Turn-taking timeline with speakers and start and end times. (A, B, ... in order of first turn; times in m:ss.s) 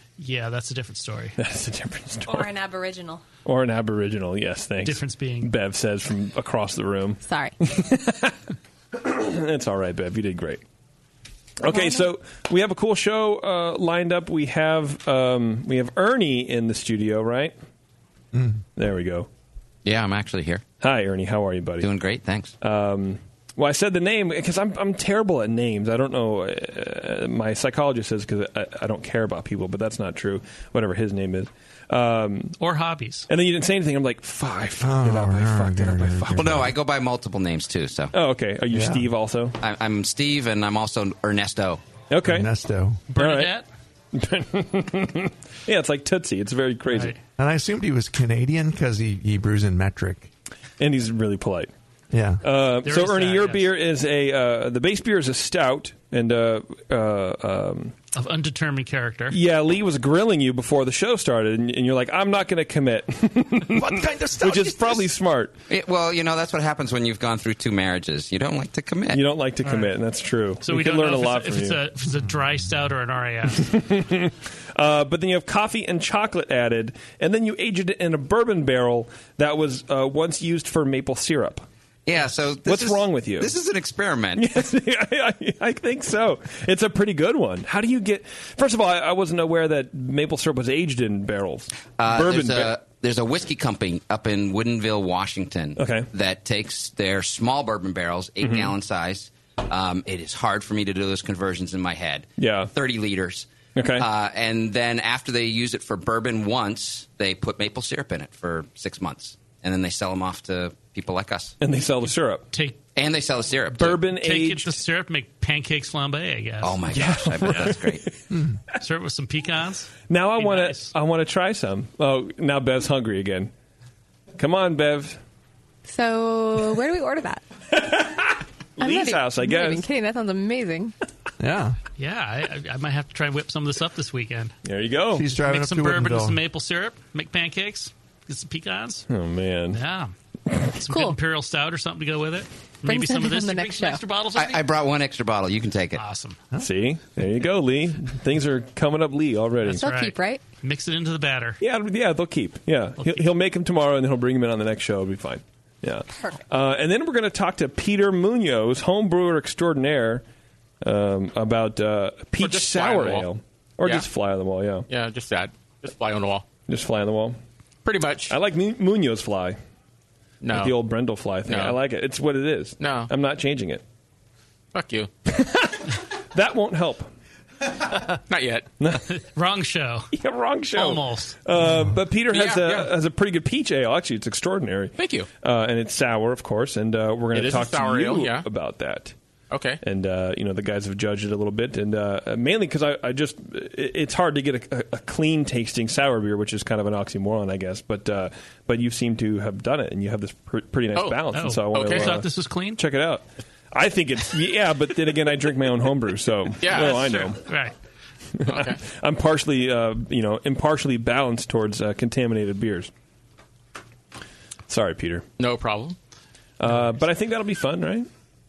0:00.2-0:01.4 A
0:01.4-0:02.5 B
0:02.2-0:03.2 C
0:03.4-0:08.4 B
0:04.8-0:05.5 A
0:07.2-0:07.6 C
0:08.9-0:10.6 B
0:11.6-0:17.5 B
0:11.6-0:12.1 C
0:18.3-0:18.6 D
0:18.8-0:19.3 B
0:19.8-0:20.6 E
0:20.8-0:21.9 B
0:21.8-0:22.5 E
0:22.6-0:32.5 B
0:32.6-0:33.3 A
0:33.3-0:36.7 B
0:34.8-0:36.7 D
0:36.4-0:38.1 E
0:38.1-0:39.6 B
0:38.7-0:39.1 D
0:39.6-0:41.8 E
0:42.1-0:42.5 B
0:42.2-0:43.0 D
0:43.1-0:43.6 A
0:43.2-0:43.5 B
0:44.1-0:47.2 B
0:46.9-0:47.2 A
0:47.4-0:50.3 D
0:50.8-0:51.7 B
0:52.1-0:52.4 D
0:52.4-0:57.9 B
0:52.8-0:53.7 A
0:58.1-0:59.4 A
0:59.3-1:05.5 B
1:03.7-1:05.1 D
1:05.7-1:09.2 E
1:09.1-1:11.8 B
1:09.6-1:09.9 A
1:10.6-1:13.7 A
1:13.6-1:21.6 B
1:22.0-1:24.6 E
1:22.3-1:23.5 B
1:24.4-1:32.7 B
1:32.0-1:51.6 E
1:35.8-1:36.1 B
1:38.4-1:38.7 B
1:42.4-1:42.7 B
1:43.7-1:44.0 B
1:51.6-1:52.5 B
1:52.5-1:52.8 A
1:52.9-1:54.0 E
1:53.8-1:54.8 B
1:54.0-1:56.8 A
1:56.6-1:58.0 E
1:56.9-1:58.1 B
1:58.8-2:00.9 A
2:00.1-2:03.5 B
2:04.4-2:05.2 B
2:05.8-2:07.4 C
2:07.7-2:09.8 B
2:08.8-2:10.9 C
2:11.4-2:11.8 D
2:12.0-2:14.6 A
2:14.6-2:15.2 B
2:15.1-2:16.4 D
2:15.2-2:19.1 A
2:19.1-2:19.8 B
2:19.7-2:20.1 A
2:20.8-2:21.2 C
2:20.8-2:24.6 A
2:22.8-2:24.0 C
2:24.3-2:26.0 E
2:26.0-2:26.4 A
2:26.6-2:29.8 B
2:29.6-2:30.4 C
2:29.6-2:31.6 A
2:31.6-2:40.2 B
2:33.0-2:33.3 A
2:40.8-2:44.9 B
2:42.4-2:43.3 F
2:44.9-2:46.5 F
2:46.7-2:47.4 B
2:47.8-2:48.4 F
2:48.3-2:49.6 B
2:50.4-2:50.8 F
2:50.5-2:53.8 B
2:51.4-2:51.8 F
2:52.8-2:53.1 F
2:54.7-2:55.1 F
2:55.3-2:57.1 B
2:58.3-2:58.7 F
2:58.8-2:59.0 B
2:59.0-3:00.1 A
3:00.1-3:09.1 B
3:00.7-3:01.4 A
3:02.3-3:02.9 F
3:05.0-3:05.3 F
3:07.3-3:08.5 F
3:09.5-3:09.8 F
3:09.8-3:27.4 B
3:20.9-3:22.2 F
3:21.3-3:22.8 A
3:26.6-3:27.4 F
3:27.3-3:27.8 A
3:28.3-3:32.9 B
3:28.4-3:28.8 F
3:34.7-3:35.2 B
3:35.4-3:36.0 F
3:36.6-3:38.1 B